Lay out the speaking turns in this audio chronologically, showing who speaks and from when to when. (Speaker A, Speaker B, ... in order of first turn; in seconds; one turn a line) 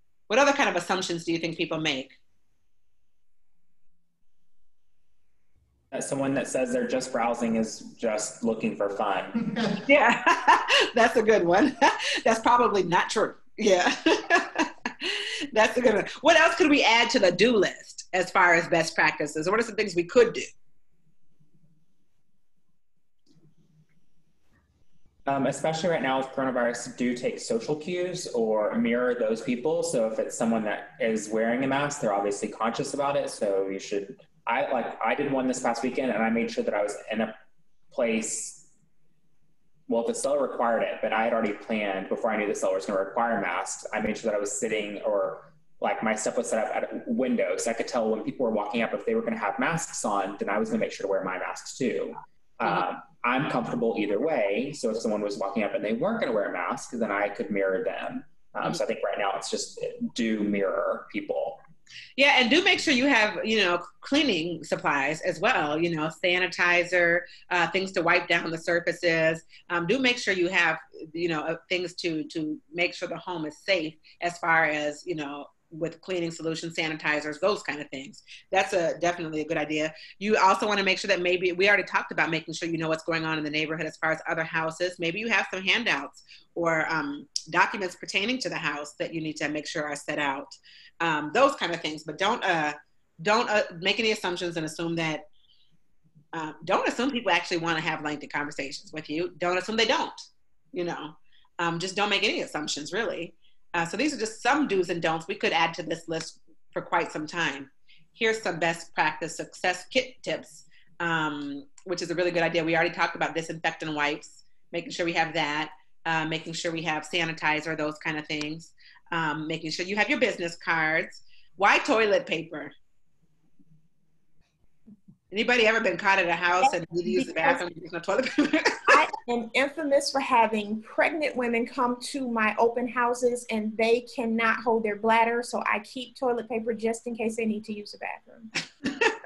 Speaker A: 0.3-2.1
Speaker B: 5.9-9.4
Speaker A: 9.8-20.5
Speaker B: 25.2-37.3
Speaker B: 37.9-38.6
Speaker B: 39.9-61.6
Speaker A: 62.2-95.3
Speaker A: 96.3-122.7
Speaker A: 125.3-128.9
Speaker C: 126.6-127.6
Speaker C: 128.9-138.5
Speaker A: 138.8-139.2